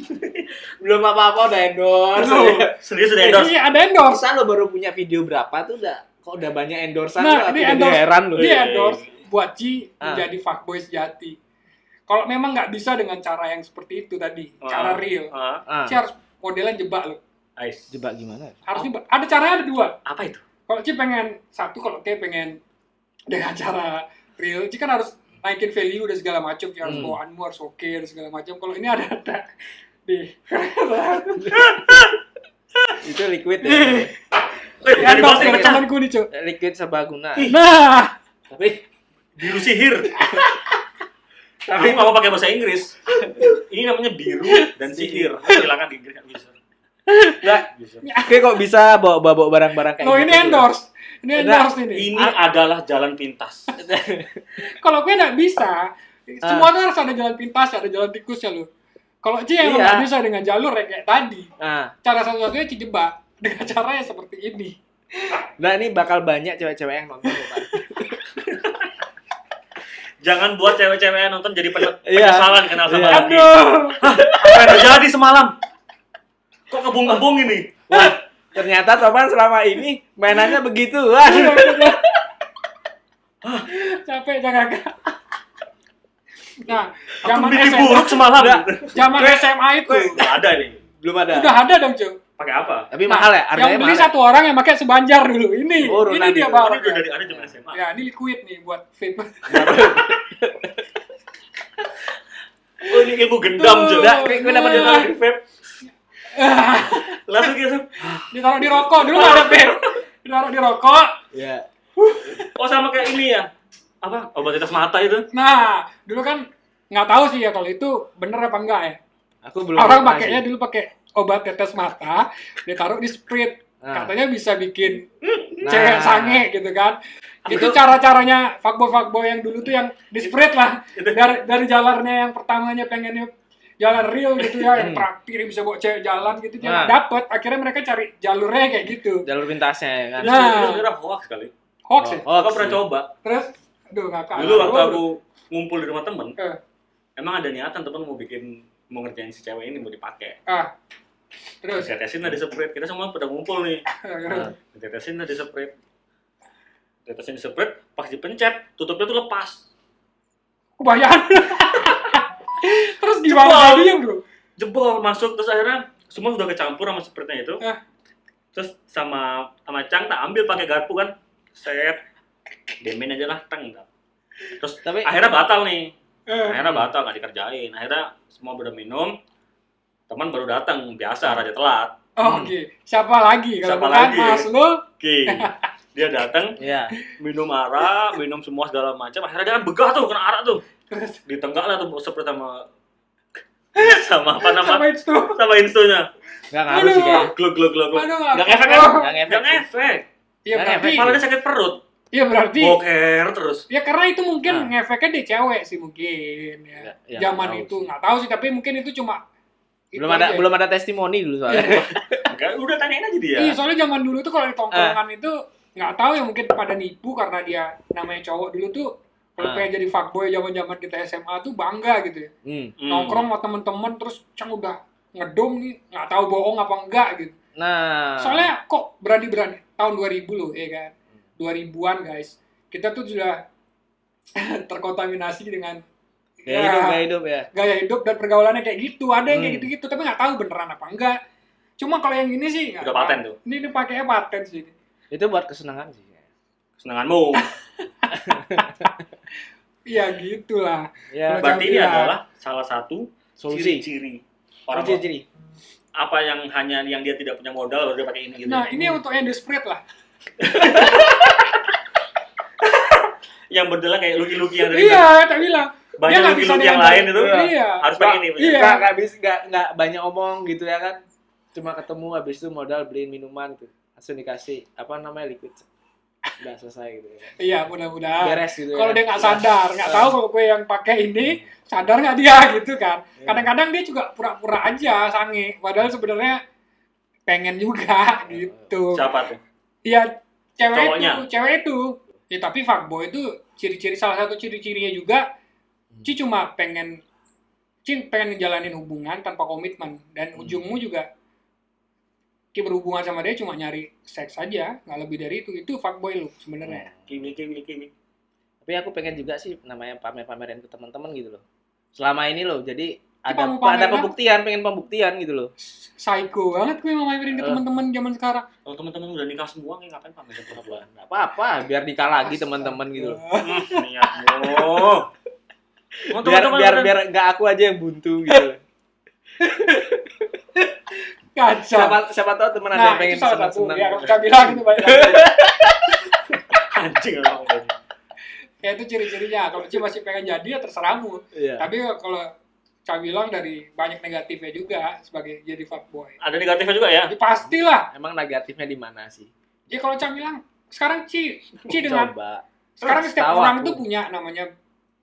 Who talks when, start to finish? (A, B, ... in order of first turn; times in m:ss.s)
0:00.8-0:02.7 A
0:02.2-0:02.7 B
0:02.7-0:03.6 C
0:03.2-0:04.2 B
0:04.1-0:08.5 A
0:07.2-0:11.4 B
0:08.4-0:09.0 C
0:12.1-0:15.3 B
0:14.6-0:15.6 C
0:15.7-0:16.0 A
0:15.8-0:17.2 B
0:17.6-0:17.9 C
0:17.9-0:18.6 A
0:18.7-0:20.0 B
0:20.0-0:20.4 C
0:20.7-0:22.6 B
0:23.3-0:29.4 B
0:26.8-0:27.2 A
0:30.0-0:31.8 B
0:31.4-0:31.7 A
0:31.6-0:32.1 C
0:33.0-0:34.1 A
0:33.6-0:34.1 B
0:34.8-0:35.8 C
0:34.9-0:36.3 B
0:35.0-0:37.5 A
0:37.5-0:38.1 B
0:38.5-0:38.8 A
0:39.4-0:40.2 C
0:41.7-0:42.1 A
0:41.8-0:46.6 C
0:44.6-0:45.5 A
0:47.1-0:47.7 A
0:47.7-0:48.0 C
0:48.0-0:48.6 B
0:48.2-0:50.7 A
0:50.0-0:52.3 B
0:51.4-0:51.7 A
0:51.9-0:53.7 C
0:53.8-0:54.6 A
0:54.6-0:58.7 B
0:56.4-0:56.7 A
0:59.2-1:01.5 B
0:59.6-1:00.1 A
1:01.6-1:01.9 A
1:02.0-1:05.2 B
1:05.6-1:08.4 A
1:07.3-1:07.6 B
1:08.5-1:08.9 C
1:10.2-1:15.5 C
1:12.0-1:13.4 A
1:13.1-1:14.0 B
1:14.0-1:14.9 A
1:16.7-1:17.8 C
1:17.9-1:22.2 A
1:21.2-1:22.0 B
1:23.4-1:23.7 C
1:23.7-1:25.1 B
1:26.6-1:28.3 B
1:27.2-1:29.3 C
1:28.3-1:30.2 A
1:28.9-1:30.2 B
1:30.0-1:30.8 C
1:31.0-1:31.5 A
1:31.3-1:32.2 B
1:32.4-1:32.9 C
1:32.9-1:34.1 A
1:33.0-1:37.0 B
1:35.8-1:37.5 A
1:36.6-1:37.8 C
1:37.7-1:39.8 B
1:39.5-1:40.8 A
1:39.5-1:40.1 C
1:42.8-1:45.4 C
1:43.5-1:45.1 B
1:43.9-1:45.1 A
1:46.3-1:47.5 B
1:46.8-1:48.2 C
1:48.3-1:51.2 B
1:48.9-1:49.8 C
1:51.3-1:51.6 A
1:52.0-1:52.5 B
1:52.4-1:53.5 C
1:54.0-1:55.2 C
1:55.3-1:59.0 B
1:59.4-2:00.4 A
1:59.8-2:05.1 B
2:03.8-2:04.1 A
2:05.2-2:05.6 C
2:05.6-2:06.4 A
2:05.6-2:19.3 B
2:07.5-2:07.8 A
2:10.9-2:11.2 C
2:14.7-2:15.1 A
2:16.6-2:17.0 A
2:19.2-2:20.3 A
2:20.2-2:20.8 B
2:20.2-2:21.5 C
2:21.9-2:22.2 B
2:22.0-2:22.8 A
2:22.3-2:23.1 C
2:23.2-2:25.0 B
2:24.3-2:26.4 C
2:24.4-2:24.7 A
2:27.2-2:30.4 C
2:31.6-2:31.9 B
2:31.8-2:33.8 C
2:34.0-2:34.5 B
2:34.3-2:34.5 A
2:34.7-2:35.7 C
2:37.0-2:39.6 C
2:40.8-2:44.2 B
2:43.2-2:43.9 C
2:44.6-2:47.6 C
2:48.5-2:52.0 C
2:52.8-2:53.9 C
2:54.6-2:55.9 C
2:54.8-2:55.2 A
2:56.3-2:56.6 B
2:56.4-2:59.2 C
2:56.6-2:56.9 A
3:00.1-3:02.0 C
3:02.2-3:05.5 B
3:02.2-3:02.5 A
3:03.6-3:06.6 C
3:06.6-3:06.9 A
3:07.2-3:10.6 C
3:10.9-3:11.2 B
3:11.2-3:12.7 C
3:13.7-3:16.1 C
3:13.8-3:15.4 B
3:16.5-3:17.3 A
3:16.7-3:17.3 B
3:17.3-3:20.1 C
3:17.9-3:19.1 B
3:18.9-3:19.6 A
3:20.4-3:21.1 B
3:20.5-3:21.2 A
3:20.9-3:21.8 C
3:22.1-3:22.8 B
3:22.6-3:23.6 C
3:23.7-3:29.2 B
3:26.8-3:27.9 A
3:29.9-3:30.5 B
3:30.0-3:32.3 A
3:31.5-3:31.8 B
3:31.7-3:33.6 C
3:33.4-3:42.3 B
3:34.7-3:35.0 A
3:39.4-3:39.7 A
3:42.4-3:42.8 A
3:42.8-3:43.3 C
3:42.9-3:47.3 B
3:47.6-3:48.5 A
3:48.2-3:53.4 B
3:54.4-3:55.8 B
3:56.4-4:01.2 B
3:56.5-3:57.5 A
3:59.3-3:59.7 A
4:01.8-4:04.7 B
4:02.8-4:03.4 C
4:05.1-4:06.2 A
4:06.8-4:07.5 C
4:07.4-4:08.9 B
4:08.1-4:08.8 A
4:09.9-4:12.1 B
4:11.1-4:11.5 A
4:11.4-4:15.0 C
4:13.4-4:13.8 A
4:14.7-4:15.2 A
4:16.0-4:18.7 C
4:18.4-4:19.8 B
4:18.7-4:19.0 A
4:20.4-4:21.5 C
4:20.6-4:20.9 A
4:20.6-4:21.0 B
4:22.6-4:25.1 C
4:24.7-4:28.9 B
4:26.0-4:28.8 C
4:27.1-4:31.0 A
4:31.5-4:35.6 A
4:36.4-4:37.3 A
4:37.4-4:46.4 B
4:38.2-4:40.1 A
4:43.2-4:43.5 A
4:47.3-4:49.1 B
4:48.3-4:48.7 A
4:48.9-4:49.4 C
4:49.8-4:55.2 B
4:50.7-4:51.2 C
4:56.0-4:57.0 B
4:57.8-5:01.1 B
5:00.4-5:00.6 A
5:02.5-5:06.8 B
5:06.6-5:07.1 A
5:07.1-5:07.9 C
5:08.6-5:11.4 A
5:11.9-5:15.5 A
5:13.3-5:14.1 B
5:15.8-5:18.4 B
5:17.4-5:17.6 A
5:18.6-5:20.8 C
5:20.5-5:23.2 A
5:22.3-5:23.8 B
5:23.4-5:25.1 C
5:26.1-5:27.0 C
5:26.1-5:28.6 A
5:29.4-5:29.8 A
5:31.3-5:32.0 B
5:31.7-5:35.8 A
5:32.7-5:35.4 B
5:36.6-5:37.7 C
5:38.6-5:42.3 B
5:41.3-5:41.7 A
5:42.8-5:46.2 B
5:46.2-5:47.1 C
5:47.1-5:47.9 B
5:47.9-5:49.3 A
5:49.7-5:52.1 B
5:51.7-5:53.8 A
5:52.8-5:54.5 B